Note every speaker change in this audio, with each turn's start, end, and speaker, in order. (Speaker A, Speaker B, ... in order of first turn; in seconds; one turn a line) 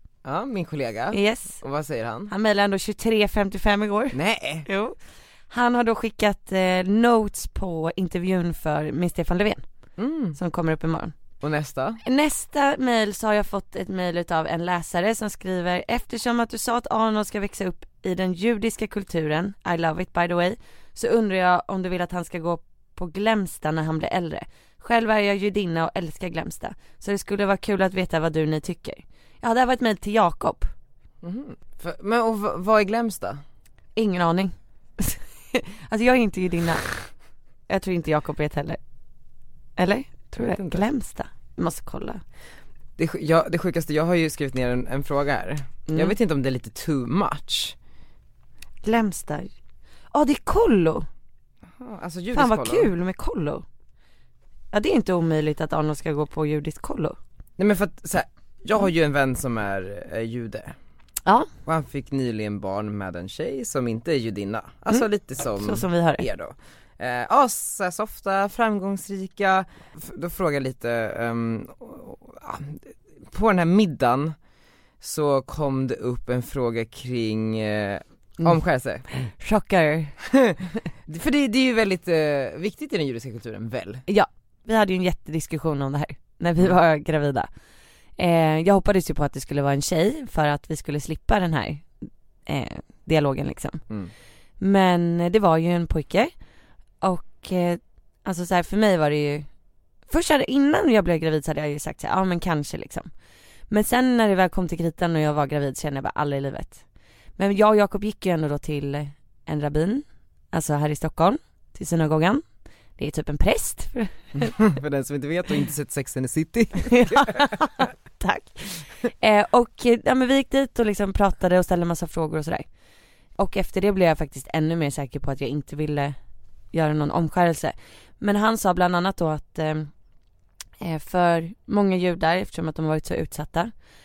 Speaker A: 0.2-2.3
Speaker B: 1.1-1.6
Speaker B: 2.3-5.0
Speaker A: 4.1-4.7
Speaker B: 5.5-9.6
Speaker A: 10.0-10.4
Speaker B: 10.3-11.1
Speaker A: 11.4-12.0
Speaker B: 12.0-30.7
Speaker A: 31.2-33.4
Speaker B: 34.0-36.9
Speaker B: 37.7-38.8
Speaker B: 39.8-42.2
Speaker A: 40.4-40.8
Speaker A: 43.0-47.7
Speaker B: 45.9-46.1
Speaker B: 48.8-49.5
Speaker B: 50.1-51.1
Speaker A: 51.8-52.9
Speaker B: 52.3-53.6
Speaker B: 54.7-57.2
Speaker A: 57.6-60.7
Speaker A: 61.6-74.3
Speaker B: 64.9-66.2
Speaker A: 75.0-79.0
Speaker B: 79.1-80.2
Speaker A: 80.2-84.0
Speaker B: 84.1-87.5
Speaker B: 88.2-91.9
Speaker B: 92.5-93.8
Speaker B: 94.6-96.3
Speaker B: 97.0-99.5
Speaker B: 100.1-103.1
Speaker B: 103.7-106.8
Speaker B: 107.4-112.4
Speaker B: 113.0-114.5
Speaker A: 114.4-117.5
Speaker B: 116.8-122.7
Speaker B: 123.4-126.2
Speaker B: 126.7-129.9
Speaker B: 130.8-133.7